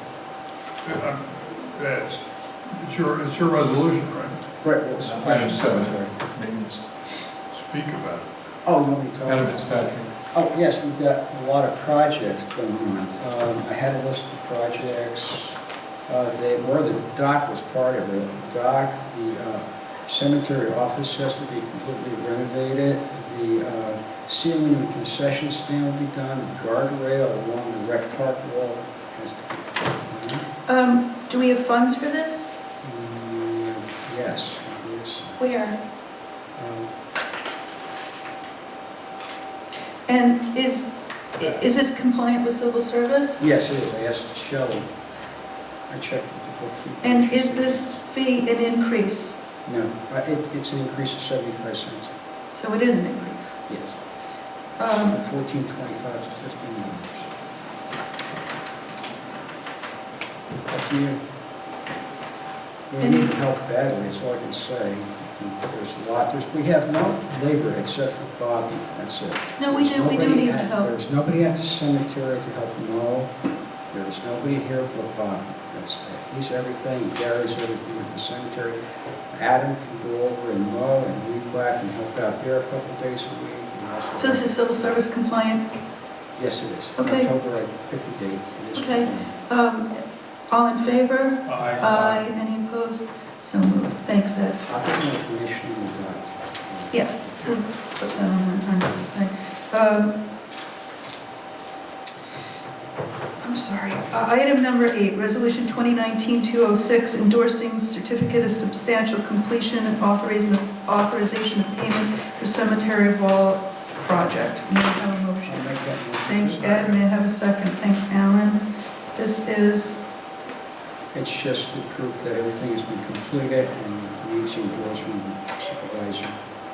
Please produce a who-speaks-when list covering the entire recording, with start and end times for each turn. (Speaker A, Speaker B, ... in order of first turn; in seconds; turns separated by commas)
Speaker A: 0.8-4.4, Speaker B: 4.6-6.1, Speaker C: 5.0-6.8, Speaker A: 7.5-8.3, Speaker B: 8.6-9.8, Speaker C: 9.2-10.1, Speaker B: 10.3-15.6, Speaker B: 16.1-30.5, Speaker D: 30.7-32.5, Speaker B: 32.8-35.4, Speaker D: 35.4-35.8, Speaker B: 36.5-36.9, Speaker D: 40.1-43.4, Speaker B: 43.4-44.9, Speaker B: 45.9-48.0, Speaker D: 47.0-49.4, Speaker B: 49.6-52.1, Speaker D: 52.5-53.6, Speaker B: 53.7-54.0, Speaker D: 54.8-55.2, Speaker B: 55.0-57.3, Speaker B: 60.7-61.2, Speaker B: 62.9-73.3, Speaker D: 63.0-63.3, Speaker D: 69.6-71.0, Speaker B: 73.9-85.0, Speaker D: 84.1-85.6, Speaker B: 86.4-89.3, Speaker D: 87.0-87.3, Speaker D: 88.8-94.6, Speaker A: 91.5-92.2, Speaker B: 94.7-97.5, Speaker D: 96.9-100.1, Speaker D: 103.4-115.7, Speaker B: 115.5-117.0, Speaker D: 116.2-118.6, Speaker D: 119.1-120.0, Speaker B: 121.1-126.4